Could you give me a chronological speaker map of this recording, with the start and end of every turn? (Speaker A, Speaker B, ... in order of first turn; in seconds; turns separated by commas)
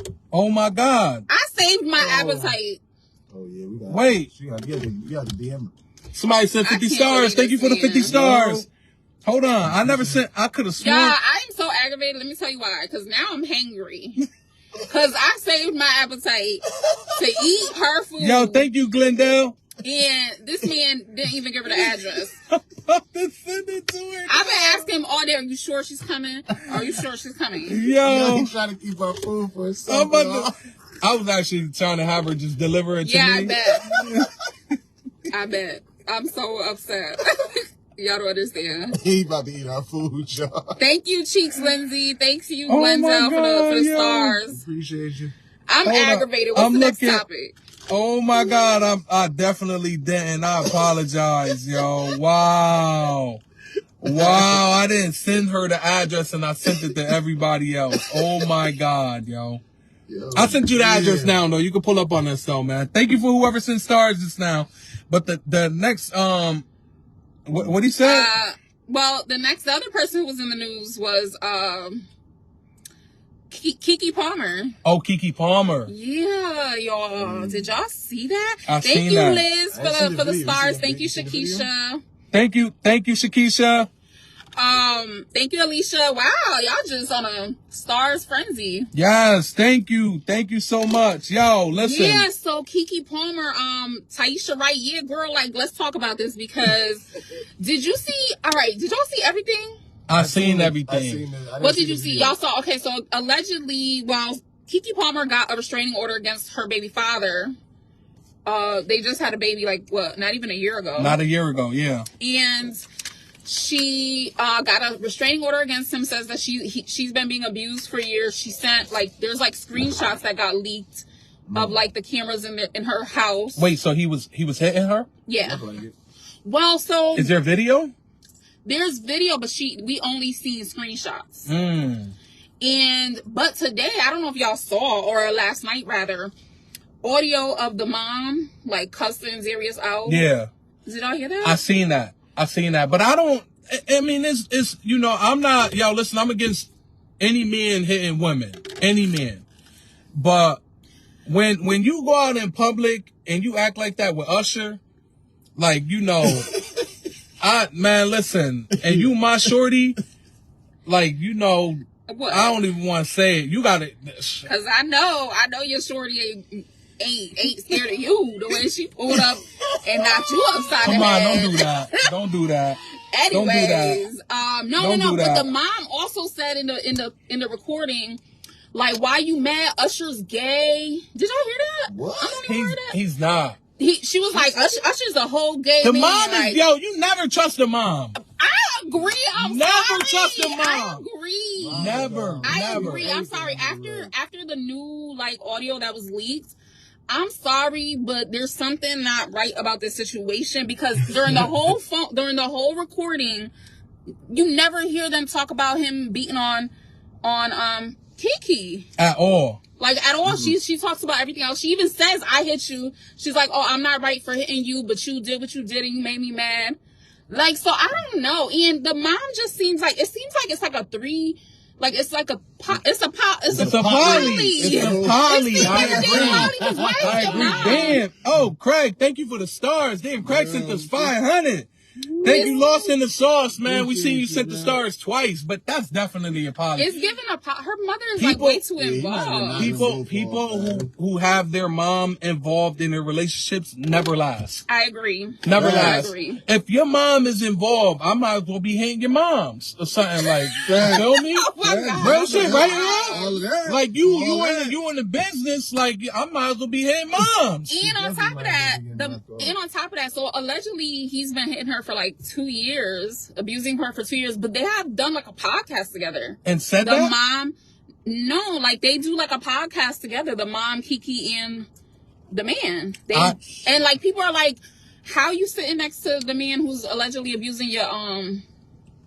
Speaker A: 0.3-1.2, Speaker B: 1.3-2.8, Speaker C: 2.0-2.5, Speaker C: 3.3-5.7, Speaker A: 3.9-4.3, Speaker A: 6.1-8.7, Speaker B: 6.6-8.1, Speaker C: 8.1-8.7, Speaker A: 9.2-11.2, Speaker C: 9.6-10.2, Speaker B: 10.8-14.2, Speaker B: 14.8-18.6, Speaker A: 18.2-19.6, Speaker B: 19.8-22.3, Speaker A: 22.5-24.9, Speaker B: 24.3-27.8, Speaker A: 27.6-28.5, Speaker C: 28.0-30.5, Speaker A: 29.9-34.3, Speaker B: 33.0-33.8, Speaker B: 35.3-39.0, Speaker C: 38.9-40.8, Speaker B: 40.8-44.6, Speaker A: 42.7-44.4, Speaker C: 44.5-45.3, Speaker B: 45.7-47.5, Speaker A: 45.8-47.2, Speaker A: 47.9-53.4, Speaker B: 48.3-48.9, Speaker A: 54.0-59.6, Speaker C: 54.0-54.6, Speaker C: 57.9-58.5, Speaker C: 60.1-61.4, Speaker A: 60.3-66.7, Speaker A: 67.5-68.3, Speaker B: 68.0-72.1, Speaker B: 73.5-74.7, Speaker A: 74.8-75.9, Speaker B: 75.9-82.0, Speaker C: 77.2-77.7, Speaker A: 78.7-79.4, Speaker C: 79.7-81.7, Speaker A: 82.3-83.9, Speaker B: 84.6-88.9, Speaker A: 88.9-92.3, Speaker B: 91.7-99.8, Speaker A: 100.1-101.2, Speaker C: 100.1-102.3, Speaker B: 101.6-107.5, Speaker B: 108.5-111.2, Speaker A: 111.0-112.1, Speaker B: 112.2-112.9, Speaker B: 113.4-123.6, Speaker C: 121.5-121.8, Speaker A: 123.5-125.1, Speaker B: 125.3-125.6, Speaker C: 125.4-125.9, Speaker B: 126.4-127.3, Speaker A: 127.1-127.9, Speaker B: 128.6-131.5, Speaker A: 131.5-132.1, Speaker B: 132.6-136.3, Speaker B: 137.0-140.3, Speaker A: 140.1-140.5, Speaker B: 140.8-141.6, Speaker A: 141.4-149.4, Speaker A: 150.1-150.6, Speaker A: 151.2-154.8, Speaker A: 155.6-156.5, Speaker A: 157.4-160.0, Speaker C: 158.8-159.1, Speaker A: 160.8-164.5, Speaker B: 162.1-162.6, Speaker B: 164.4-172.1, Speaker A: 170.8-172.8, Speaker B: 173.1-178.2, Speaker A: 173.3-174.0, Speaker A: 174.8-175.5, Speaker B: 178.7-183.0, Speaker C: 181.9-182.4, Speaker A: 182.4-183.6, Speaker B: 183.8-186.6, Speaker A: 185.8-188.2, Speaker B: 188.4-196.5, Speaker A: 189.3-191.0, Speaker C: 191.6-194.1, Speaker A: 191.7-193.1, Speaker B: 197.1-203.5, Speaker B: 204.3-206.7, Speaker B: 207.2-208.9, Speaker A: 209.0-209.6, Speaker B: 209.8-216.8, Speaker C: 210.2-210.6, Speaker B: 217.3-228.0, Speaker C: 223.5-228.5, Speaker A: 223.6-231.7, Speaker C: 230.2-231.1, Speaker C: 232.0-232.5, Speaker A: 232.2-237.0, Speaker B: 232.2-232.9, Speaker C: 233.6-234.8, Speaker B: 236.8-239.8, Speaker A: 238.2-238.6, Speaker C: 238.8-240.9, Speaker A: 239.5-244.6, Speaker B: 244.7-246.4, Speaker A: 245.4-257.8, Speaker C: 245.6-246.1, Speaker C: 250.6-251.1, Speaker B: 250.9-253.4, Speaker C: 251.6-254.8, Speaker B: 257.7-271.7, Speaker C: 257.8-259.5, Speaker A: 266.4-267.1, Speaker B: 272.3-278.4, Speaker A: 273.1-273.4